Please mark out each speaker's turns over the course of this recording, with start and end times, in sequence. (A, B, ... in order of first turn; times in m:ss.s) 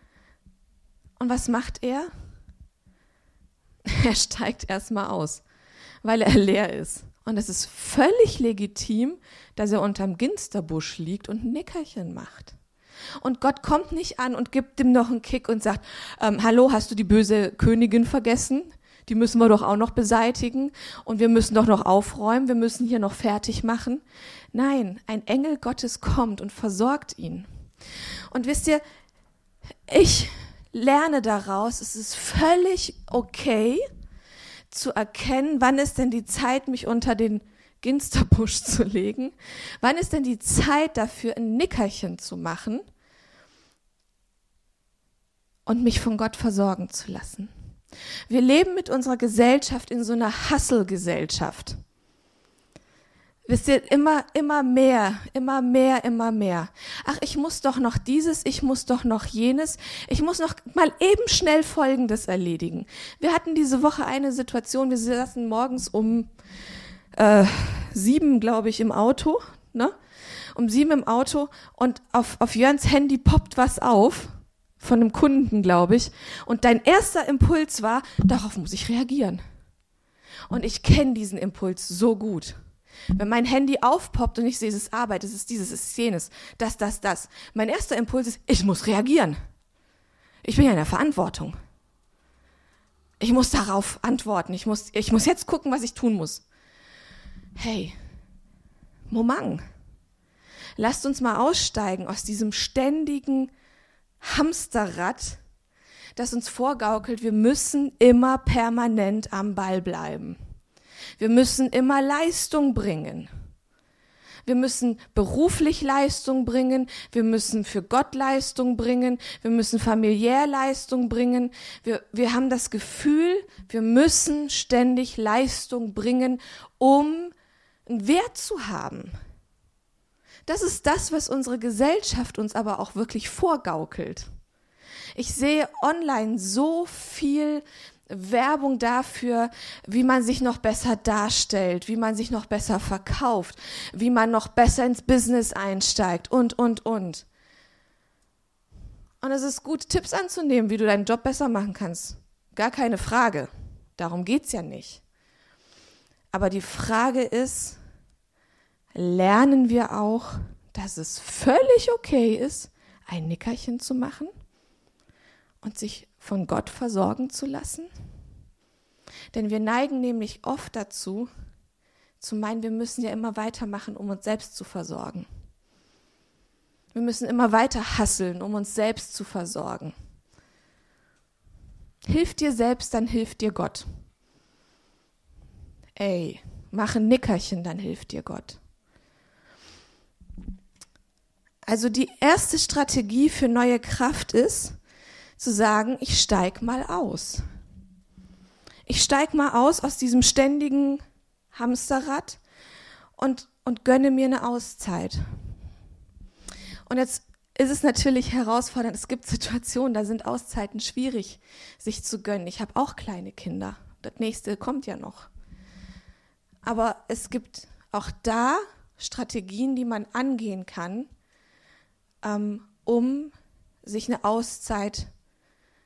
0:01.2-0:02.1 A
0:03.8-0:05.4 A
0:06.0-0:12.6 A
0:13.2-0:27.5 A
0:28.3-0:28.8 A
0:29.9-0:33.9 A
0:34.7-0:42.8 A
0:45.6-0:47.5 A
0:48.3-0:51.8 A
0:53.5-1:06.3 A
1:07.1-1:10.0 A
1:10.5-1:19.4 A
1:20.5-1:22.6 A
1:23.1-1:29.4 A
1:30.4-1:31.5 A
1:33.2-1:36.4 A
1:37.6-1:38.0 A
1:39.1-1:39.6 A
1:40.8-1:43.5 A
1:44.2-1:45.4 A
1:46.2-1:50.4 A
1:51.2-1:53.3 A
1:54.4-2:07.3 A
2:07.9-2:09.1 A
2:10.4-2:14.3 A
2:15.1-2:27.2 A
2:29.2-2:35.0 A
2:36.3-2:37.8 A
2:38.9-2:44.3 A
2:45.6-2:47.9 A
2:49.3-2:51.3 A
2:52.2-2:55.3 A
2:56.9-2:59.9 A
3:02.1-3:03.8 A
3:06.0-3:08.6 A
3:11.6-3:14.8 A
3:15.4-3:17.4 A
3:18.9-3:21.0 A
3:21.5-3:22.4 A
3:23.2-3:25.2 A
3:26.9-3:35.3 A
3:36.6-3:41.1 A
3:42.2-3:45.1 A